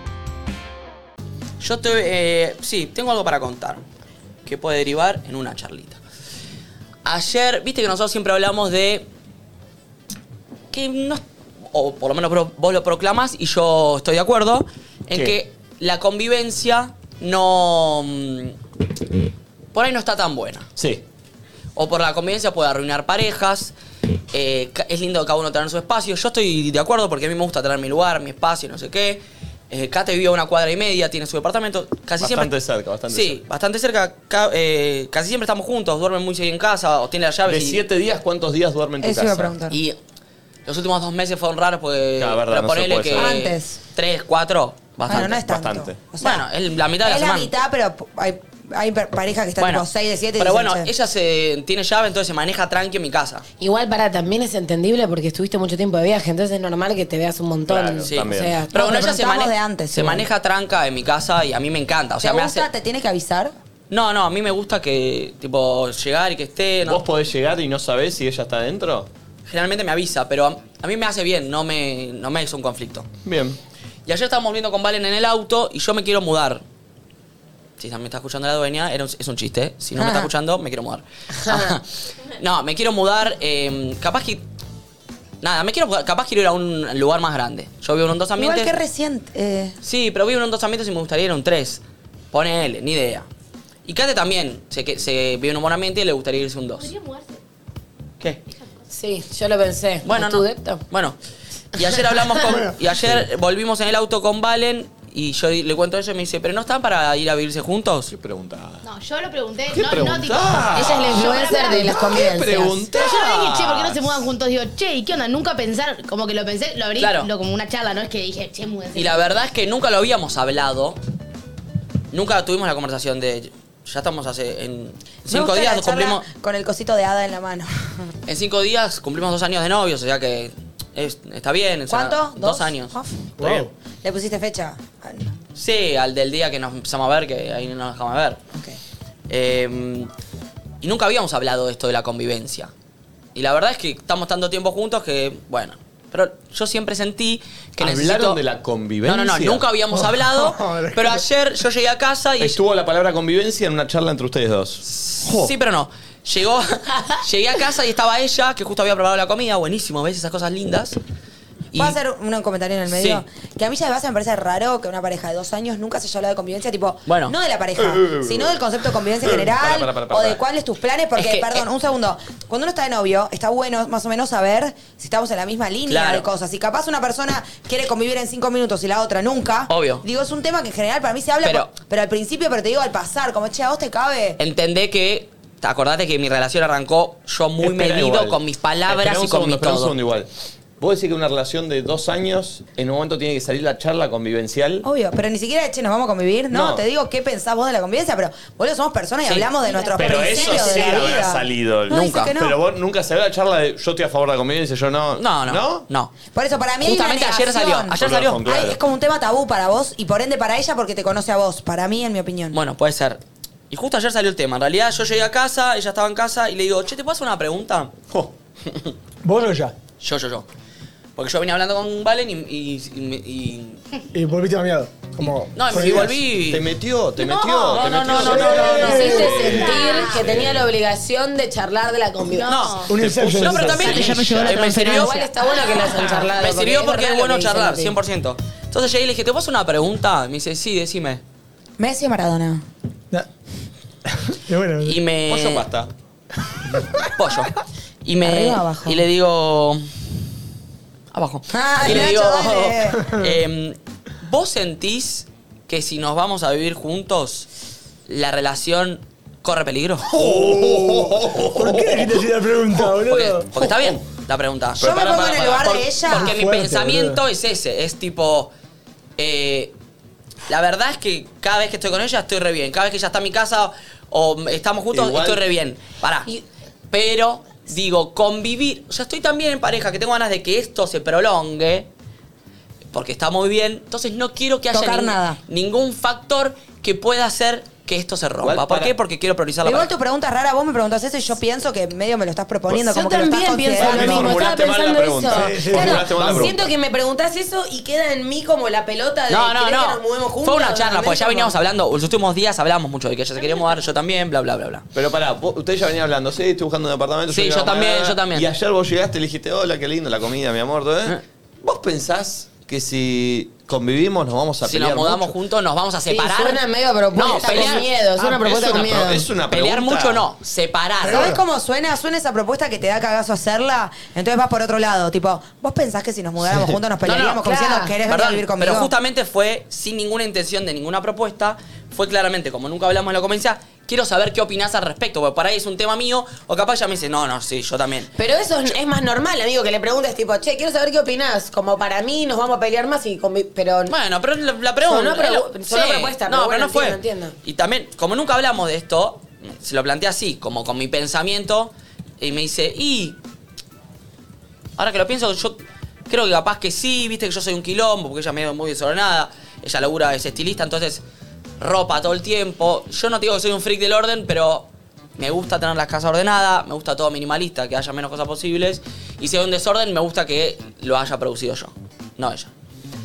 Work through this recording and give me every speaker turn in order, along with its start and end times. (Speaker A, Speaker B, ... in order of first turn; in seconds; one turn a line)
Speaker A: 1.6-3.8
Speaker A: 4.5-6.0
Speaker A: 7.0-9.1
Speaker A: 10.7-18.6
Speaker B: 15.1-15.4
Speaker A: 19.7-20.7
Speaker B: 20.8-21.0
Speaker A: 21.8-23.7
Speaker A: 24.3-32.5
Speaker B: 32.2-33.4
Speaker A: 33.1-37.8
Speaker B: 37.5-39.5
Speaker C: 39.0-39.8
Speaker A: 39.7-40.0
Speaker A: 40.7-45.4
Speaker B: 42.2-43.4
Speaker C: 43.1-43.8
Speaker C: 45.1-46.5
Speaker B: 45.3-46.0
Speaker A: 46.2-47.5
Speaker C: 47.0-50.9
Speaker A: 49.6-53.4
Speaker D: 53.6-58.7
Speaker B: 57.7-58.6
Speaker A: 58.0-62.7
Speaker C: 58.7-60.3
Speaker C: 62.2-63.5
Speaker A: 63.9-67.0
Speaker B: 66.8-69.1
Speaker A: 69.5-73.1
Speaker B: 73.2-73.6
Speaker A: 74.0-76.6
Speaker A: 77.8-84.4
Speaker C: 80.0-80.3
Speaker A: 85.4-88.8
Speaker C: 88.4-89.8
Speaker A: 89.8-93.3
Speaker A: 93.8-96.9
Speaker E: 96.8-97.4
Speaker D: 98.9-100.8
Speaker A: 100.0-101.2
Speaker A: 101.7-108.1
Speaker B: 108.1-108.8
Speaker E: 108.8-112.1
Speaker B: 109.7-114.2
Speaker D: 110.7-112.9
Speaker E: 112.9-119.4
Speaker A: 117.0-117.3
Speaker A: 119.0-121.0
Speaker A: 122.1-126.2
Speaker C: 125.3-128.1
Speaker A: 128.2-132.9
Speaker C: 131.9-135.3
Speaker F: 133.4-133.7
Speaker A: 135.5-138.4
Speaker A: 139.3-140.1
Speaker A: 140.8-142.7
Speaker A: 143.3-148.4
Speaker B: 147.8-149.8
Speaker A: 149.1-152.6
Speaker F: 150.4-150.9
Speaker B: 152.4-155.5
Speaker A: 154.8-161.0
Speaker A: 161.7-162.0
Speaker C: 161.8-184.4
Speaker A: 162.9-163.2
Speaker A: 167.1-167.3
Speaker B: 167.8-168.6
Speaker B: 169.2-170.4
Speaker A: 171.2-171.6
Speaker A: 175.9-176.3
Speaker A: 179.7-180.0
Speaker A: 181.4-181.7
Speaker A: 184.4-189.9
Speaker B: 187.6-190.3
Speaker B: 190.8-194.8
Speaker C: 194.8-202.6
Speaker B: 196.5-196.8
Speaker A: 199.2-200.2
Speaker B: 199.9-205.8
Speaker A: 200.8-201.1
Speaker A: 201.9-202.3
Speaker A: 205.1-206.1
Speaker C: 206.3-212.6
Speaker A: 206.8-208.4
Speaker B: 207.9-208.8
Speaker A: 212.5-217.9
Speaker F: 219.2-219.7
Speaker A: 220.0-220.4
Speaker A: 221.2-223.8
Speaker F: 224.1-226.2
Speaker A: 225.5-226.6
Speaker B: 225.7-230.7
Speaker E: 227.2-227.9
Speaker A: 227.7-229.3
Speaker D: 228.1-232.7
Speaker F: 228.2-229.6
Speaker E: 229.0-230.2
Speaker E: 232.3-232.9
Speaker A: 232.5-235.1
Speaker F: 232.9-233.8
Speaker B: 232.9-234.8
Speaker E: 233.6-236.2
Speaker D: 234.7-237.9
Speaker A: 236.3-241.2
Speaker C: 241.8-242.7
Speaker F: 244.1-245.0
Speaker A: 244.8-245.7
Speaker B: 245.3-245.9
Speaker A: 247.2-247.5
Speaker A: 248.0-249.8
Speaker C: 248.2-249.0
Speaker A: 251.1-257.5
Speaker C: 251.5-253.0
Speaker F: 253.0-253.3
Speaker A: 258.1-260.1
Speaker B: 260.1-262.3
Speaker F: 260.2-263.5
Speaker A: 263.1-265.0
Speaker B: 263.5-264.0
Speaker B: 264.8-266.1
Speaker C: 264.8-266.4
Speaker A: 265.6-268.5
Speaker F: 266.1-267.2
Speaker A: 269.2-269.7
Speaker A: 270.5-276.3
Speaker B: 274.9-275.4
Speaker A: 276.9-281.9
Speaker A: 282.9-289.9
Speaker C: 284.7-285.4
Speaker B: 288.4-288.9
Speaker C: 289.6-294.4
Speaker D: 292.9-301.6
Speaker B: 293.7-296.7
Speaker F: 295.3-296.5
Speaker A: 299.3-304.9
Speaker B: 304.9-315.4
Speaker A: 307.3-308.5
Speaker A: 314.6-316.6
Speaker D: 316.1-319.3
Speaker A: 317.1-317.9
Speaker B: 317.2-320.3
Speaker A: 319.5-321.4
Speaker C: 321.1-328.9
Speaker A: 327.0-338.1
Speaker D: 338.2-343.9
Speaker A: 343.9-353.2
Speaker D: 344.9-347.4
Speaker A: 354.8-361.0
Speaker A: 361.6-372.5